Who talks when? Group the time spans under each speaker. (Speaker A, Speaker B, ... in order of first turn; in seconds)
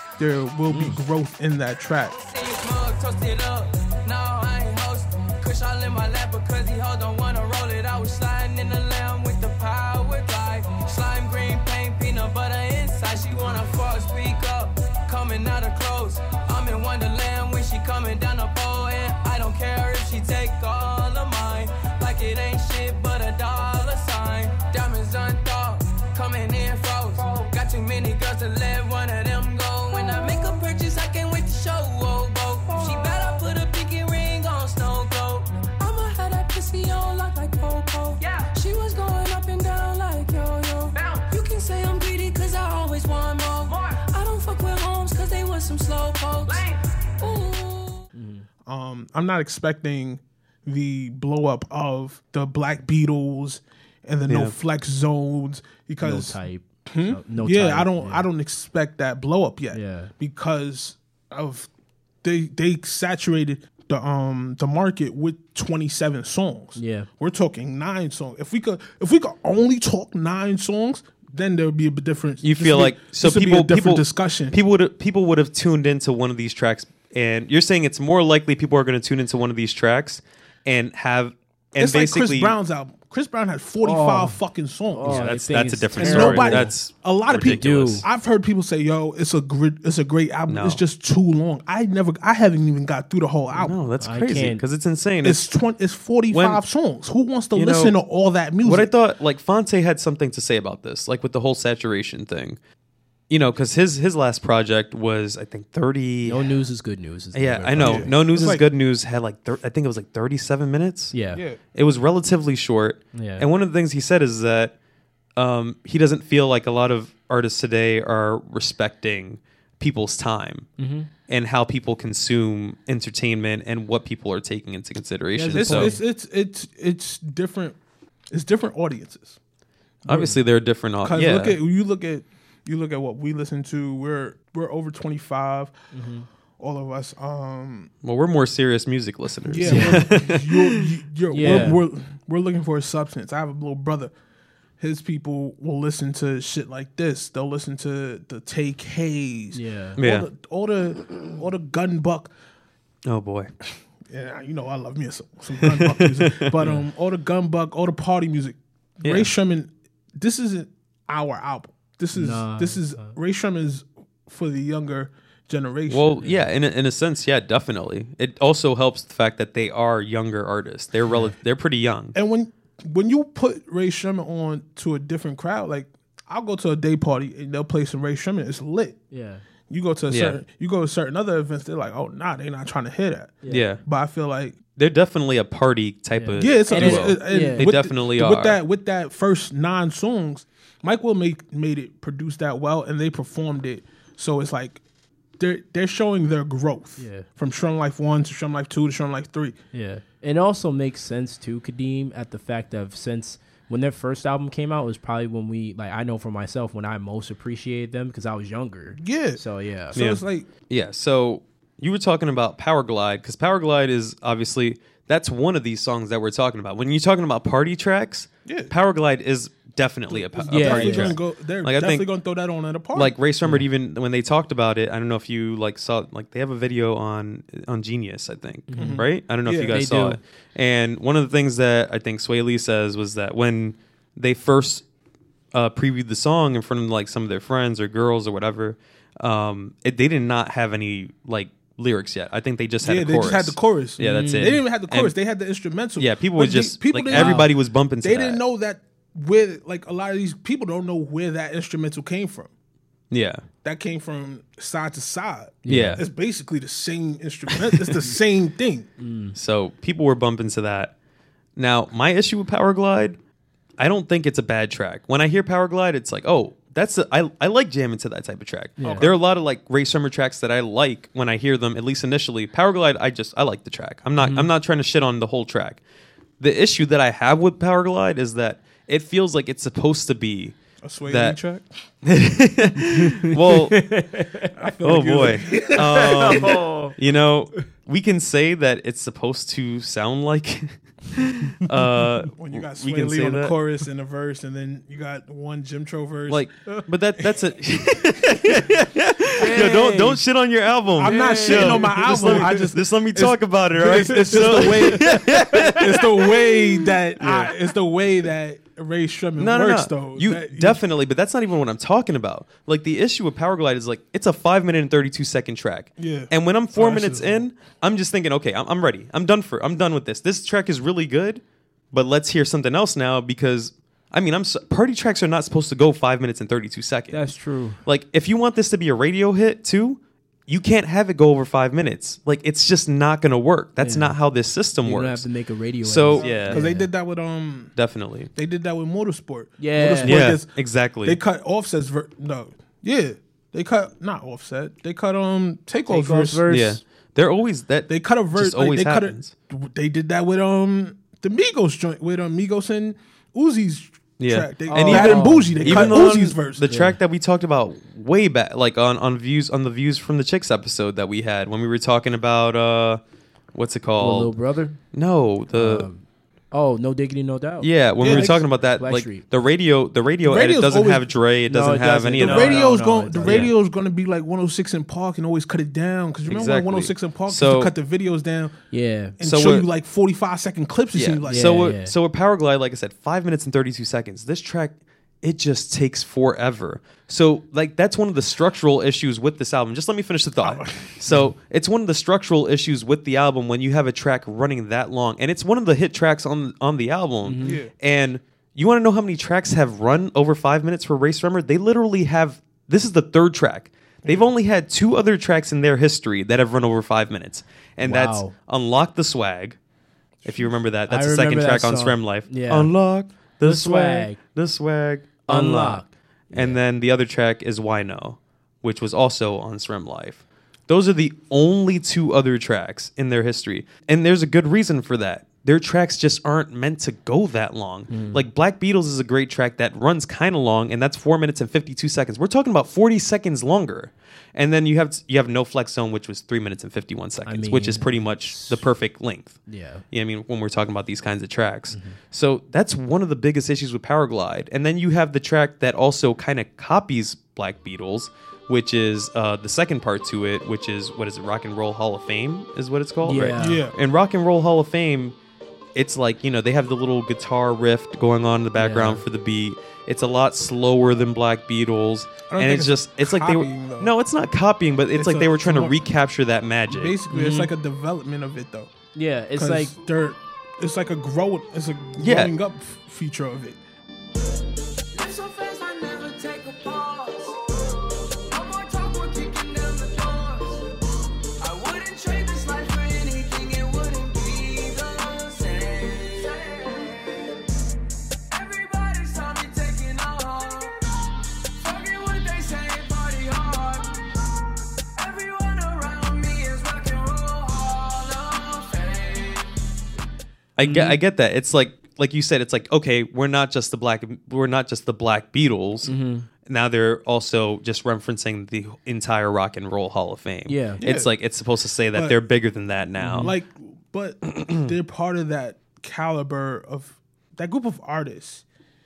Speaker A: 0.2-2.1, 48.6-61.7, 62.2-74.6, 81.8-85.4, 86.0-93.8, 95.2-98.9, 107.8-108.6, 111.3-111.6, 125.5-127.8, 128.3-129.4, 131.0-135.7, 136.6-137.9, 139.5-144.1, 144.8-152.3, 154.1-166.2, 172.1-179.0, 179.7-184.6, 186.4-194.8, 195.4-199.6, 209.0-209.4, 209.9-210.5, 218.4-218.7, 220.1-223.2, 228.8-229.8, 242.8-252.5, 253.6-258.9, 268.8-269.1, 280.8-281.6, 284.5-286.6, 292.3-296.5, 301.0-310.8, 316.0-317.4, 336.1-337.7, 338.3-340.5, 341.0-346.4, 347.9-356.6, 368.0-368.4, 370.2-371.1, 372.2-378.6, 379.2-381.7, 390.4-390.9, 397.4-397.7, 453.4-453.8, 462.3-463.9, 464.9-465.8, 466.7-468.7, 469.3-473.6, 510.8-511.1, 513.1-518.4
Speaker B: 0.7-1.0, 48.1-48.5, 56.0-58.3, 59.7-60.1, 66.8-67.1, 83.8-84.4, 84.9-86.7, 87.4-88.0, 94.0-94.6, 106.2-108.1, 111.1-111.4, 113.1-113.5, 120.8-121.1, 125.3-126.0, 130.1-130.4, 135.9-136.3, 139.6-140.0, 141.3-141.8, 149.5-150.0, 156.6-156.8, 162.1-163.1, 171.1-171.3, 179.1-179.4, 183.4-183.7, 186.1-187.7, 197.0-197.2, 199.7-210.0, 220.5-221.2, 228.7-229.0, 229.7-230.2, 244.0-244.6, 247.1-247.5, 255.6-256.0, 259.0-259.4, 268.8-269.1, 274.2-274.5, 282.8-284.6, 285.5-286.9, 299.4-300.2, 301.0-302.6, 304.4-305.7, 327.1-327.8, 333.8-334.2, 334.8-336.9, 339.6-340.3, 345.9-346.8, 354.6-357.0, 364.0-364.8, 365.5-369.2, 371.5-373.5, 378.7-379.1, 381.3-381.9, 397.2-397.6, 407.8-408.3, 410.9-412.7, 413.4-414.2, 415.3-416.6, 427.9-428.2, 437.2-438.7, 439.5-439.8, 441.7-442.0, 453.0-453.6, 458.6-459.0, 467.1-467.5, 468.9-469.7, 500.6-501.0, 505.8-506.3, 510.4-510.8, 513.0-513.3
Speaker C: 2.1-48.0, 474.9-477.4, 478.3-480.7, 481.4-487.4, 488.3-490.8, 491.6-494.0, 494.9-499.5
Speaker D: 54.3-54.5, 72.4-82.5, 85.0-88.0, 90.5-90.8, 93.5-95.4, 96.3-96.6, 97.5-98.0, 98.6-102.6, 103.3-106.5, 107.3-111.1, 111.7-114.7, 115.4-120.7, 121.3-125.9, 130.1-131.6, 138.0-141.7, 150.0-150.3, 153.1-153.5, 155.6-156.5, 159.0-159.3, 165.9-172.1, 180.1-180.4, 183.5-183.8, 184.8-188.6, 209.9-222.1, 222.9-234.8, 235.5-245.2, 245.9-248.4, 253.1-253.4, 255.7-256.0, 259.3-260.9, 261.6-263.2, 263.8-275.8, 276.4-281.4, 282.0-283.8, 284.8-293.6, 296.3-306.6, 307.2-307.5, 309.4-327.3, 327.8-335.2, 335.8-336.6, 337.8-338.3, 340.0-341.2, 346.5-349.3, 354.2-363.0, 363.5-364.4, 364.9-365.9, 367.6-372.7, 373.2-373.5, 376.2-377.7, 379.2-379.7, 380.9-409.6, 410.2-439.4, 439.9-455.1, 455.7-467.0, 472.0-472.4, 500.6-505.9, 506.4-513.3